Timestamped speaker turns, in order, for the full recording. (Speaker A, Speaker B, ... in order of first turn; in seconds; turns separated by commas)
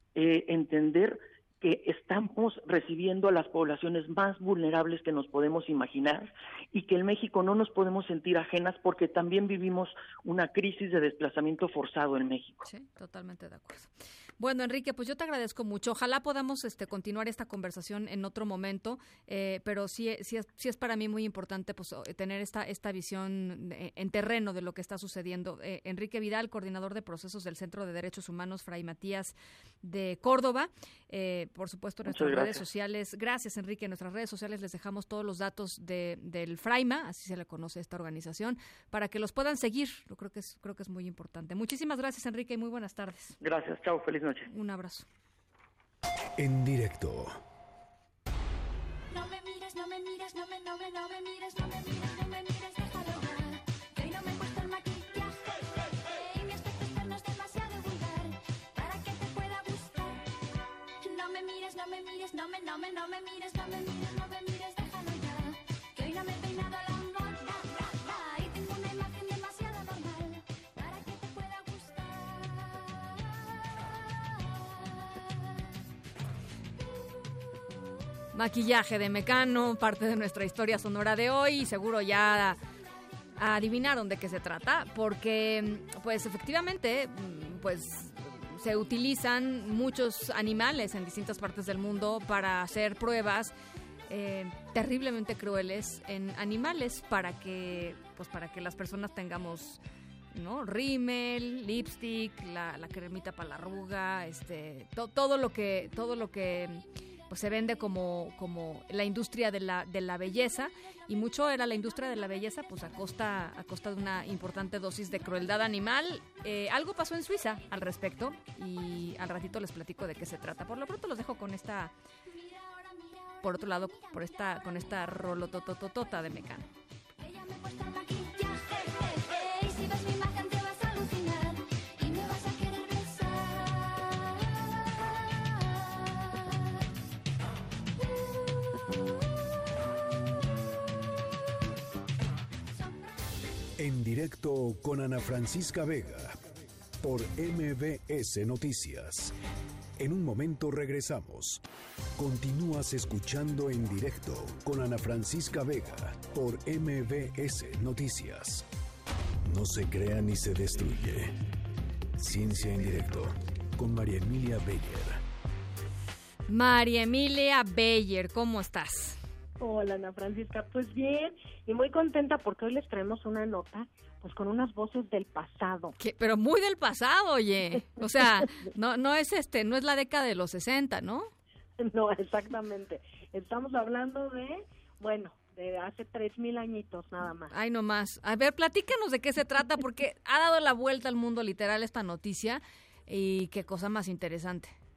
Speaker A: 0.1-12.7, Speaker B: 12.7-43.4, Speaker A: 32.0-32.6, Speaker A: 43.4-44.5, Speaker B: 44.5-45.0, Speaker C: 46.4-47.4, Speaker D: 49.1-53.3, Speaker D: 54.0-55.2, Speaker D: 56.3-57.6, Speaker D: 58.8-59.9, Speaker D: 61.1-65.0, Speaker D: 66.0-67.6, Speaker D: 68.1-70.0, Speaker D: 70.8-71.8, Speaker B: 78.3-82.6, Speaker B: 83.4-93.5, Speaker B: 94.1-99.8, Speaker B: 100.3-121.9, Speaker B: 123.4-126.7, Speaker D: 128.0-128.5, Speaker D: 129.7-131.3, Speaker D: 132.1-133.2, Speaker C: 143.8-146.4, Speaker C: 147.0-149.3, Speaker C: 150.0-151.6, Speaker C: 152.2-158.6, Speaker C: 159.4-161.4, Speaker C: 162.2-165.2, Speaker B: 166.5-169.2, Speaker E: 169.6-175.9, Speaker B: 176.0-181.3, Speaker E: 178.1-178.4, Speaker E: 181.8-187.5, Speaker B: 187.5-194.8